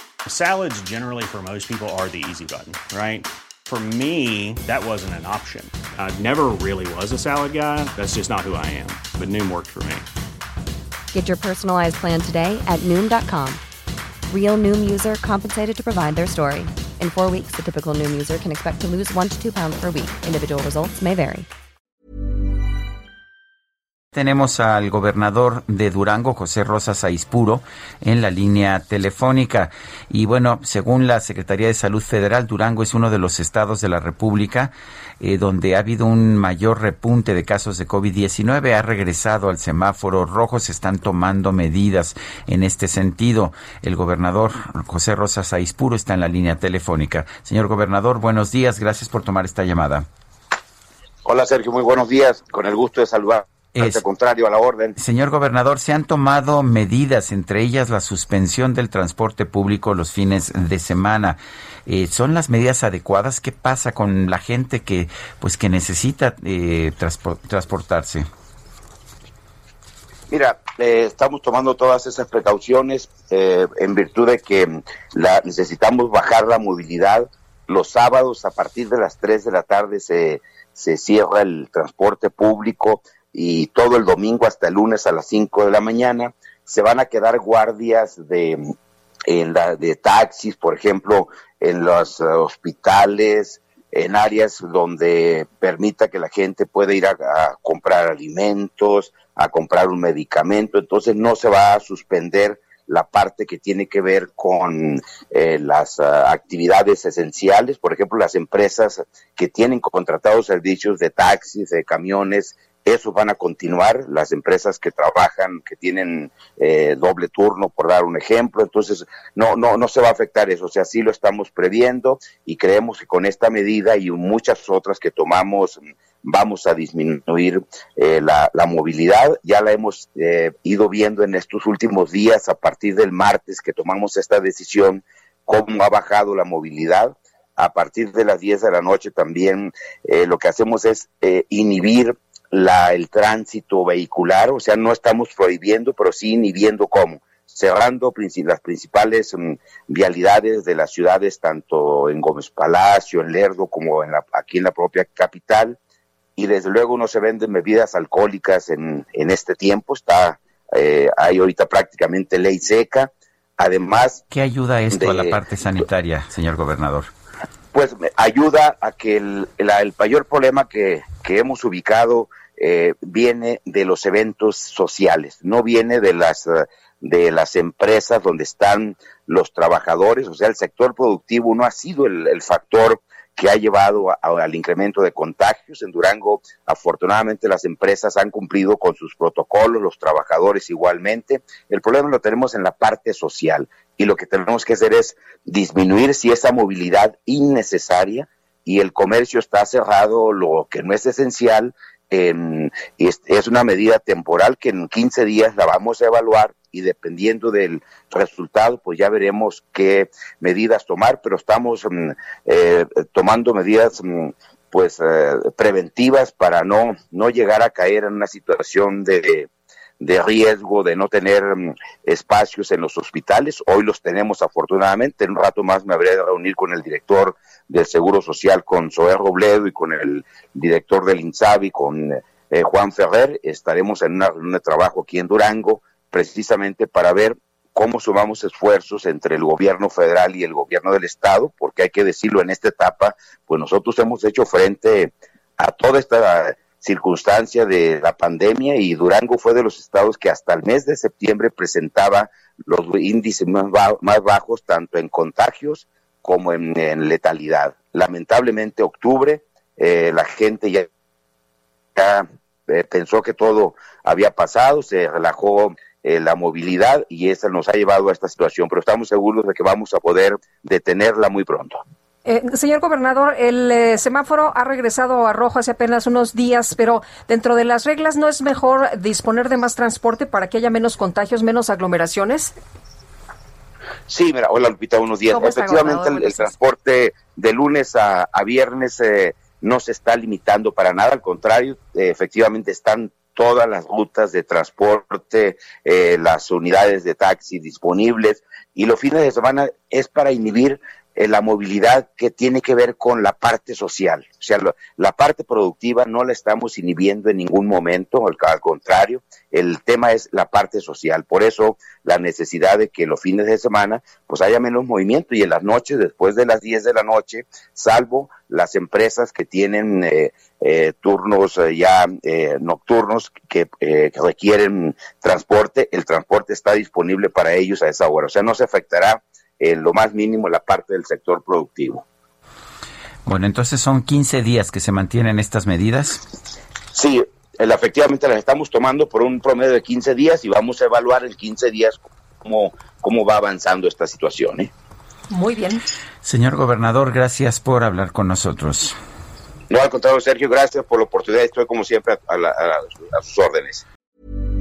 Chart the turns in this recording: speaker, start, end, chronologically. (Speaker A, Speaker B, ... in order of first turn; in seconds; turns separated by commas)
Speaker A: 0.2-10.1, Speaker B: 11.1-13.6, Speaker B: 14.3-21.5, Speaker C: 24.1-50.1, Speaker D: 51.2-54.9, Speaker C: 55.0-68.2, Speaker D: 70.3-88.7, Speaker D: 89.3-155.8, Speaker D: 156.3-164.2, Speaker C: 164.3-167.1, Speaker D: 164.9-165.4, Speaker D: 167.7-219.5, Speaker D: 220.0-260.9, Speaker D: 261.9-271.8, Speaker E: 272.2-282.5, Speaker D: 284.1-332.0, Speaker E: 285.3-286.5, Speaker C: 333.2-336.2, Speaker D: 336.9-344.7, Speaker E: 345.3-345.8, Speaker C: 346.2-348.9, Speaker D: 349.7-353.8